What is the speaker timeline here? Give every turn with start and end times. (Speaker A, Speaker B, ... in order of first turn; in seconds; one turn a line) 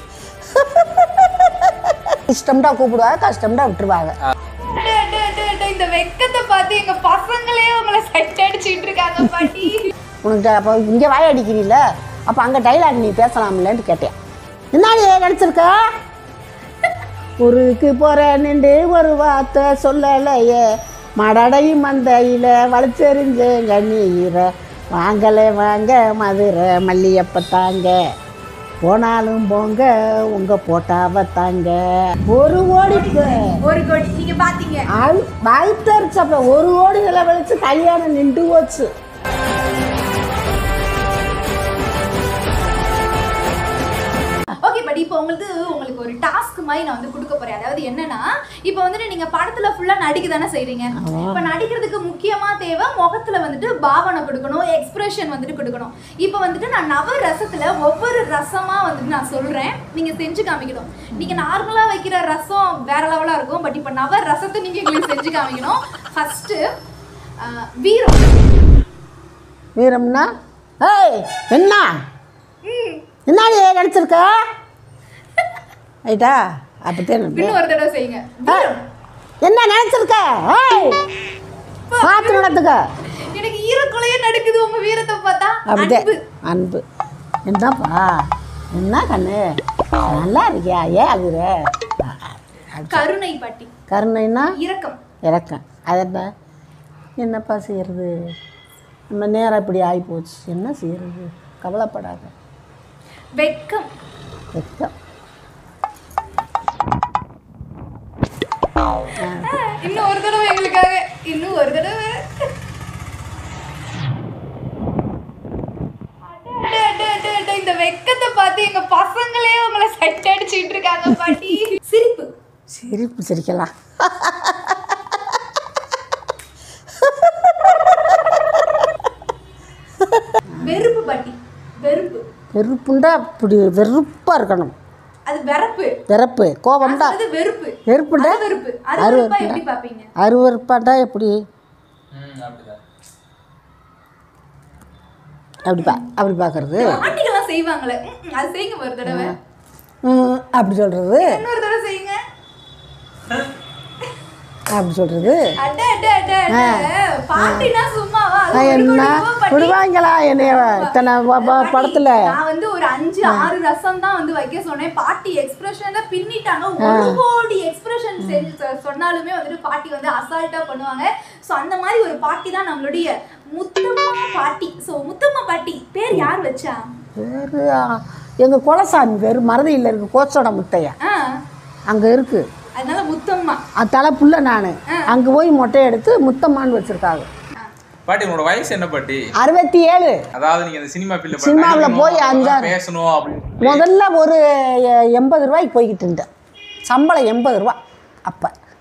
Speaker A: 0.6-1.3
Speaker A: 2.1-4.2
Speaker B: 4.6-9.9
Speaker A: 10.2-14.1
Speaker A: 14.7-15.8
Speaker A: 17.4-20.6
Speaker A: 21.2-27.9
Speaker A: 28.8-31.8
Speaker A: 32.3-33.6
Speaker B: 33.5-34.9
Speaker A: 34.9-38.9
Speaker B: 44.6-66.6
Speaker A: 51.0-51.5
Speaker A: 61.1-61.5
Speaker B: 67.4-68.4
Speaker A: 69.8-70.3
Speaker A: 70.8-72.0
Speaker B: 72.6-73.0
Speaker A: 73.3-74.3
Speaker A: 76.1-77.6
Speaker B: 77.3-78.8
Speaker A: 79.4-81.0
Speaker B: 81.9-82.6
Speaker A: 82.0-82.8
Speaker B: 83.3-86.2
Speaker A: 85.7-86.8
Speaker A: 87.5-89.4
Speaker A: 90.0-91.5
Speaker A: 92.0-93.0
Speaker B: 92.9-93.7
Speaker A: 93.9-94.5
Speaker B: 94.6-95.0
Speaker A: 95.3-96.3
Speaker A: 97.2-98.1
Speaker A: 99.1-102.3
Speaker B: 103.4-103.9
Speaker A: 104.5-104.9
Speaker A: 109.2-109.5
Speaker B: 109.4-112.5
Speaker B: 116.3-122.3
Speaker A: 122.7-125.2
Speaker A: 127.0-128.3
Speaker A: 130.0-130.7
Speaker B: 130.6-132.2
Speaker A: 132.5-134.7
Speaker B: 135.3-135.9
Speaker A: 136.1-137.2
Speaker B: 136.8-140.1
Speaker A: 137.9-138.4
Speaker A: 139.0-139.6
Speaker A: 140.2-141.3
Speaker C: 142.1-142.8
Speaker A: 145.7-147.0
Speaker B: 146.8-149.3
Speaker A: 149.1-149.3
Speaker A: 150.1-151.4
Speaker B: 151.2-152.2
Speaker A: 154.7-155.5
Speaker B: 155.6-159.8
Speaker A: 156.5-156.8
Speaker A: 157.4-157.7
Speaker A: 158.5-162.2
Speaker B: 160.4-176.8
Speaker A: 166.8-167.2
Speaker A: 168.2-168.5
Speaker A: 177.2-180.9
Speaker B: 181.0-181.4
Speaker A: 181.9-182.4
Speaker B: 182.8-183.6
Speaker A: 183.8-187.3
Speaker C: 188.1-189.2
Speaker A: 189.4-190.2
Speaker C: 190.3-193.8
Speaker A: 191.3-192.7
Speaker A: 193.6-196.2
Speaker A: 196.9-197.8